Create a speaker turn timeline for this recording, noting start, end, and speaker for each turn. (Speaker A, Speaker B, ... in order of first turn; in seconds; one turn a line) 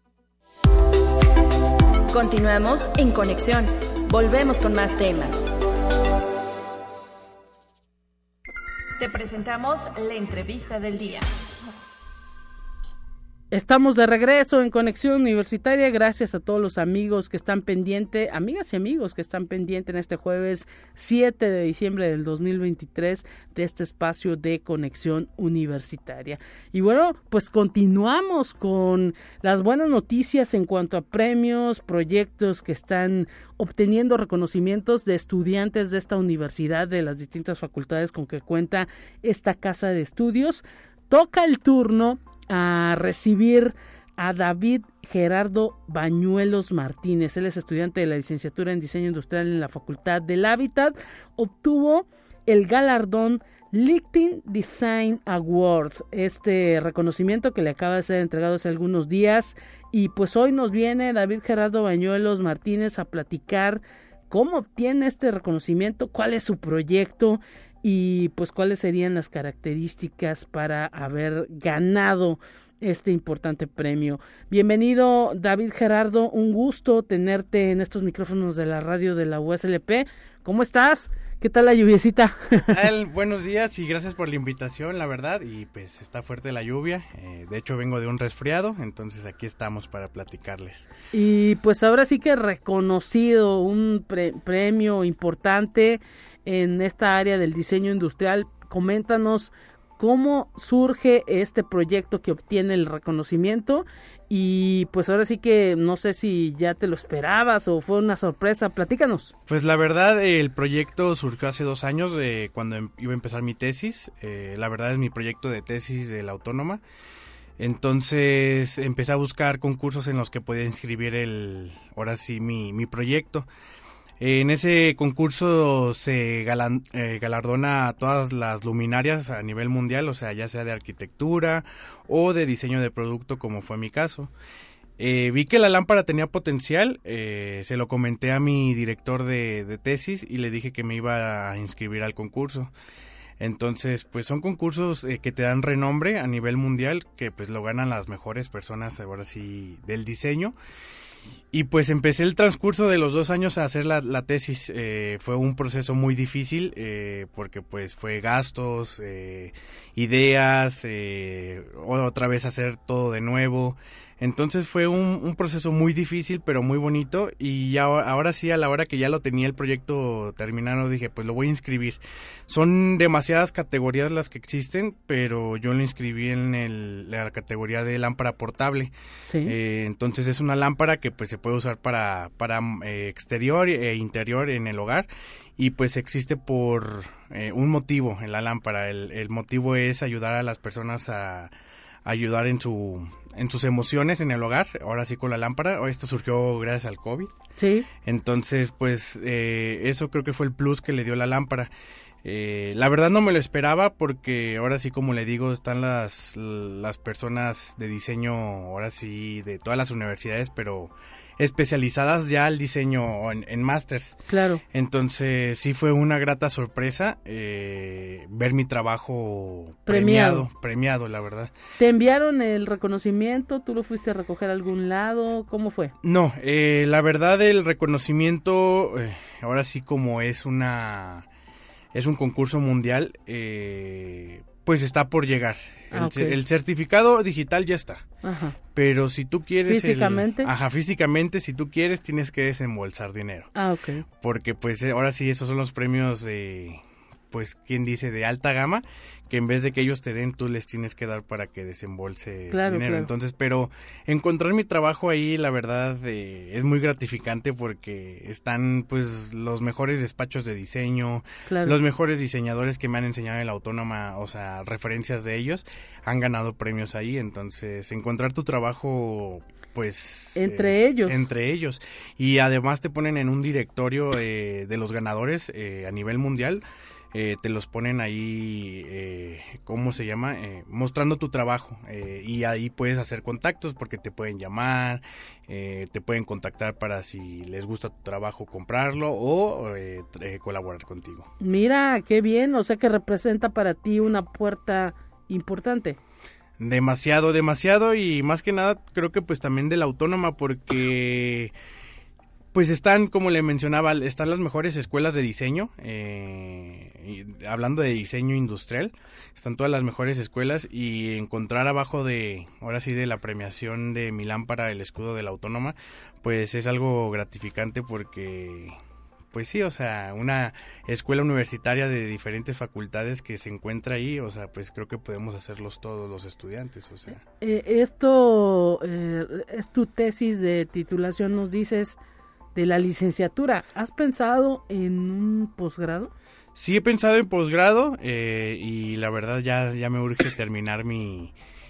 Speaker A: 2.1-5.4
Speaker A: 9.0-11.3
Speaker B: 13.5-82.8
Speaker C: 82.7-90.9
Speaker B: 91.1-109.3
Speaker C: 109.5-116.8
Speaker C: 117.6-123.5
Speaker C: 124.2-134.3
Speaker C: 135.0-142.7
Speaker C: 143.4-150.6
Speaker C: 151.5-178.9
Speaker B: 179.3-179.5
Speaker C: 179.4-191.5
Speaker C: 192.1-197.3
Speaker B: 197.6-197.9
Speaker C: 198.1-201.7
Speaker C: 202.2-214.2
Speaker B: 214.3-214.6
Speaker C: 214.7-221.5
Speaker B: 219.9-220.5
Speaker B: 221.8-225.9
Speaker C: 226.0-231.3
Speaker C: 231.9-238.1
Speaker B: 235.9-236.4
Speaker B: 238.2-238.6
Speaker C: 238.8-243.5
Speaker B: 239.7-240.5
Speaker B: 243.6-244.0
Speaker C: 244.2-291.3
Speaker B: 252.5-253.1
Speaker B: 261.5-261.8
Speaker B: 270.4-271.2
Speaker B: 291.4-296.0
Speaker C: 296.6-301.5
Speaker C: 302.5-318.8
Speaker C: 319.3-327.2
Speaker B: 327.4-332.0
Speaker B: 332.6-336.1
Speaker C: 336.6-341.3